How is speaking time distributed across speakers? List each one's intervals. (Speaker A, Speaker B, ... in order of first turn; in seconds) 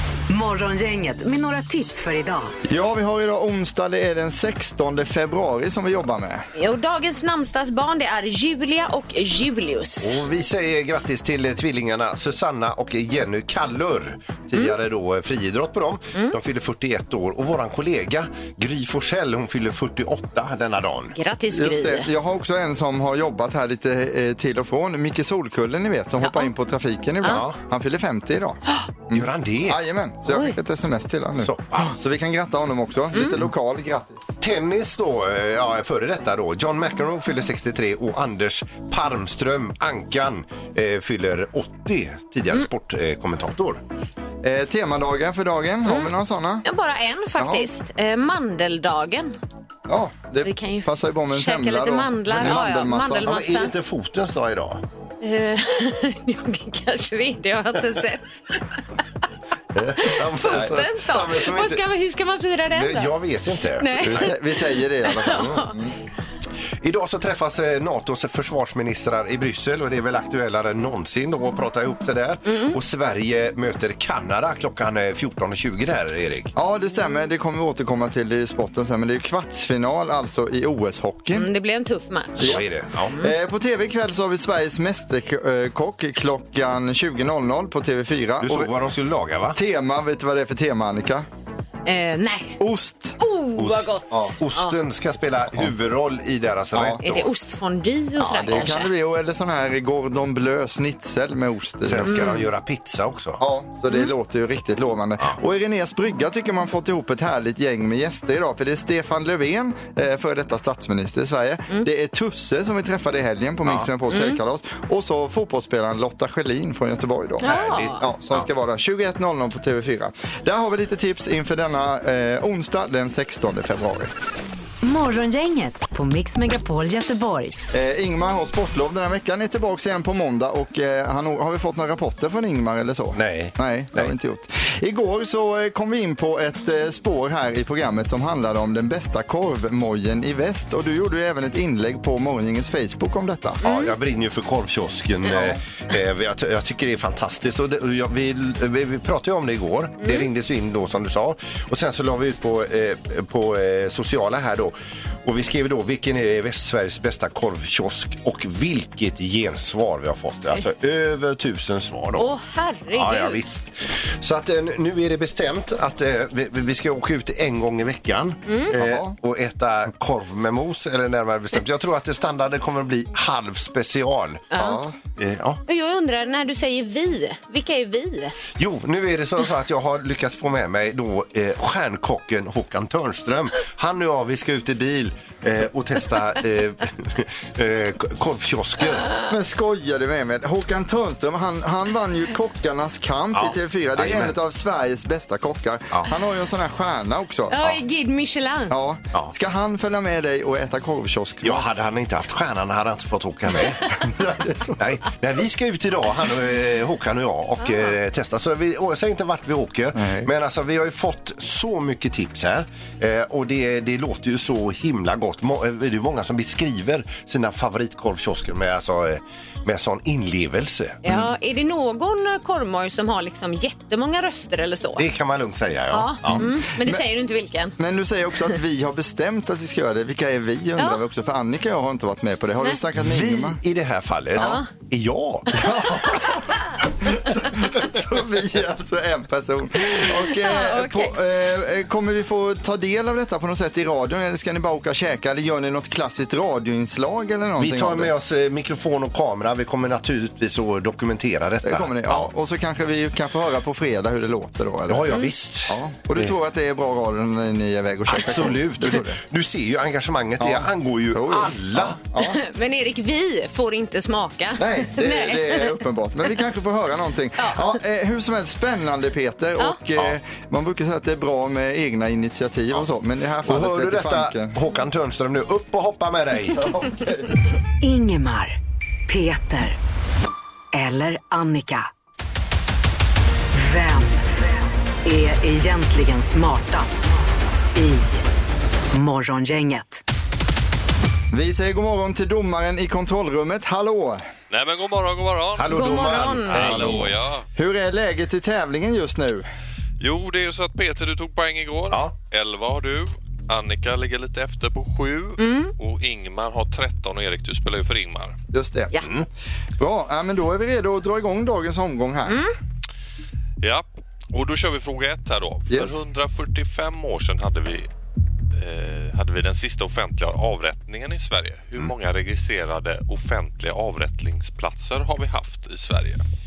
Speaker A: 0.3-2.5, 124.8-127.6, 277.8-279.8, 280.7-281.9, 283.5-284.3, 285.0-287.1, 287.7-288.2, 288.9-290.0
Speaker B: 2.7-6.5, 21.5-34.4, 44.4-46.6, 47.4-47.7, 49.9-53.4, 64.0-66.0, 76.5-81.5, 82.4-88.7, 89.5-91.3, 92.6-93.2, 94.1-94.3, 96.7-97.0, 98.3-102.3, 103.4-124.1, 127.7-143.6, 168.7-169.1, 174.6-175.0, 189.2-197.6, 198.7-201.7, 204.0-204.8, 209.9-210.3, 226.2-227.0, 227.8-233.6, 235.5-248.1, 251.6-259.2, 260.4-262.4, 264.6-274.6, 276.5-277.4, 291.3-294.3, 296.6-299.5, 308.5-308.9, 309.8-312.4, 315.7-316.0
Speaker C: 6.5-10.1, 21.1-22.1, 26.2-26.5, 30.3-30.6, 46.6-49.4, 50.4-53.7, 55.2-58.6, 60.0-63.1, 63.8-65.8, 72.5-72.8, 81.3-83.3, 91.8-92.6, 93.2-94.8, 97.0-98.9, 102.1-102.5, 114.1-114.4, 117.4-118.1, 143.6-143.9, 150.0-150.3, 162.2-163.4, 168.5-168.7, 174.5-174.8, 175.7-178.3, 197.5-198.7, 221.0-225.1, 225.9-227.8, 234.4-234.7, 240.0-241.2, 262.2-265.8, 267.4-267.7, 295.7-296.9, 305.4-305.7, 312.3-312.5
Speaker D: 10.0-21.1, 27.2-27.6, 29.1-29.8, 31.4-31.9, 34.4-43.8, 53.1-54.8, 59.8-61.8, 62.7-64.3, 66.8-76.5, 82.4-83.1, 88.4-89.6, 93.6-97.3, 98.2-98.7, 101.8-103.4, 117.4-118.5, 133.1-134.1, 143.6-162.3, 162.9-174.5, 175.2-175.6, 178.6-189.2, 193.3-194.3, 201.4-204.1, 204.8-221.0, 224.9-226.5, 233.0-235.9, 247.6-252.3, 254.9-256.3, 258.1-262.0, 273.4-276.7, 295.6-297.1, 309.0-309.3
Speaker E: 294.5-297.4, 300.0-308.4, 313.6-317.9, 318.5-326.2